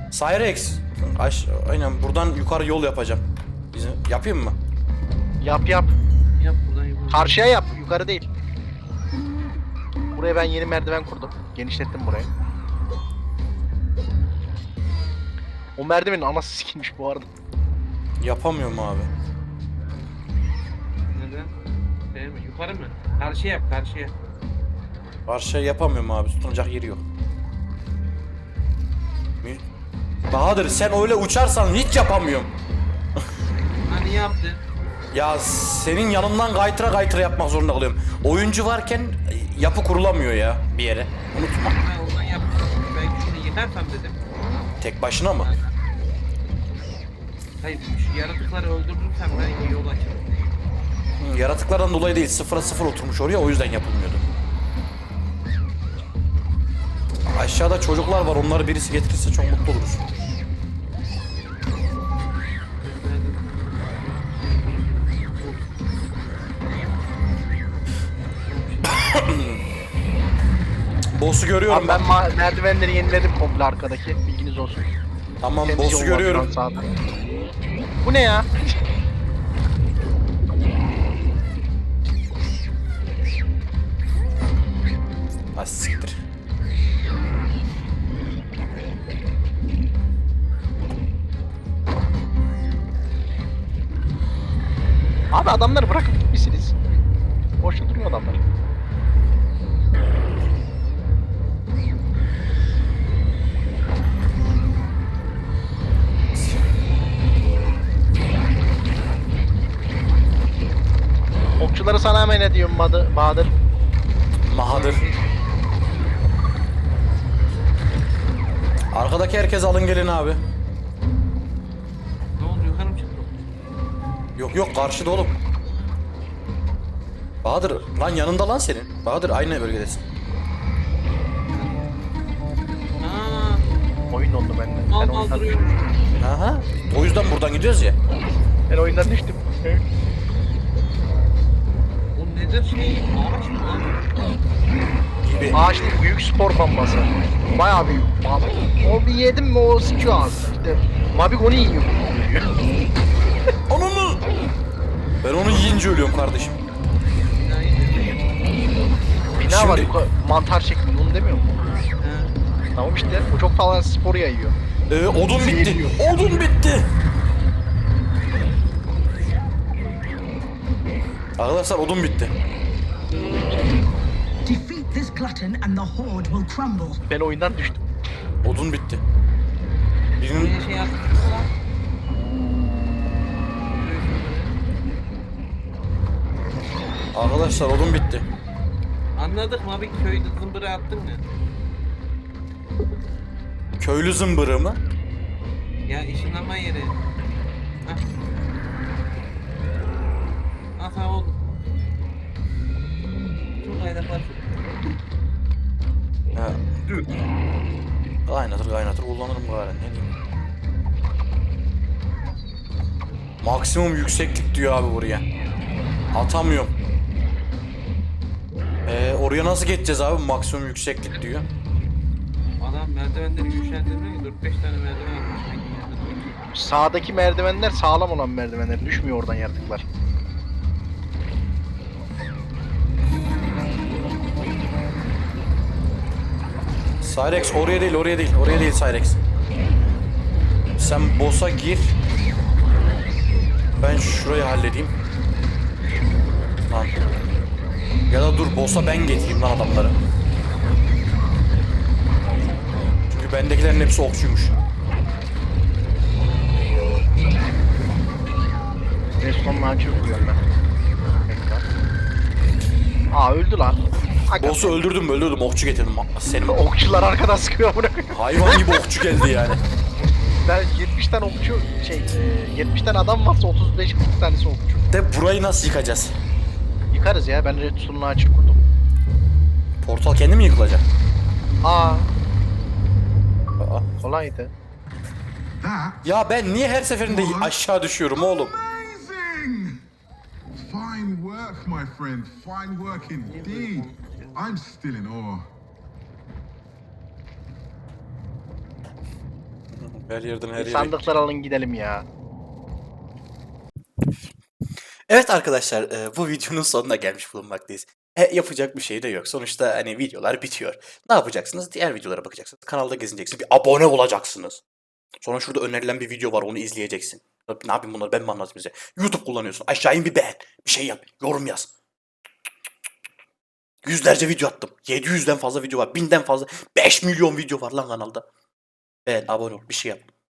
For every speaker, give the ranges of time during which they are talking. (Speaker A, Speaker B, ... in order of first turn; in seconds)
Speaker A: 0.1-4.6, 18.2-19.1, 25.3-27.0, 30.3-32.5, 35.1-41.8, 44.8-45.5, 51.2-54.2, 57.3-60.0, 68.9-69.6, 71.2-72.1, 75.4-76.5, 85.5-86.2, 114.4-115.0, 118.9-120.4, 124.4-125.4, 127.4-130.0, 136.2-138.0, 145.2-145.6, 153.7-154.2, 155.2-156.6, 159.4-159.9, 164.9-166.9, 171.4-172.3, 178.4-179.0, 180.2-180.5, 187.1-188.3, 193.8-194.8, 206.3-207.3, 208.3-210.1, 213.4-215.2, 216.1-216.7, 218.8-221.5, 237.0-239.2, 240.8-242.0, 243.8-244.9, 246.7-246.9, 248.1-250.0, 253.1-254.6, 264.4-266.6, 268.1-269.6, 274.9-276.2, 279.8-280.9, 283.6-283.9, 286.0-288.5, 299.7-301.1, 305.1-314.6, 315.2-321.7, 323.8-328.3, 329.1-330.1
Speaker B: 5.4-5.9, 7.1-8.3, 10.2-12.3, 15.8-17.3, 71.7-74.9, 75.7-76.9, 78.0-78.7, 95.3-96.8, 97.6-98.4, 111.6-113.5, 134.1-135.6, 138.7-139.8, 145.5-152.5, 159.4-161.5, 162.8-164.5, 165.4-166.0, 177.1-177.8, 226.6-229.8, 259.2-260.4, 261.3-261.6, 263.1-264.8, 266.5-268.8, 270.4-274.8, 276.9-278.6, 281.6-282.1, 284.0-284.5, 300.6-302.1
Speaker C: 6.4-7.4, 21.1-21.5, 22.1-24.1, 33.9-34.6, 41.8-44.2, 45.4-45.7, 47.6-50.5, 62.8-65.7, 68.4-69.0, 114.7-115.5, 122.4-123.5, 131.5-131.9, 133.0-133.7, 134.9-135.8, 142.2-144.1, 157.4-158.2, 162.0-162.3, 180.3-181.5, 183.7-184.6, 189.2-191.2, 195.9-197.0, 200.8-201.4, 203.6-204.6, 222.6-226.4, 293.2-294.6
Speaker D: 174.4-177.0
Speaker E: 285.6-286.2, 287.1-287.6, 288.4-289.8, 290.5-295.5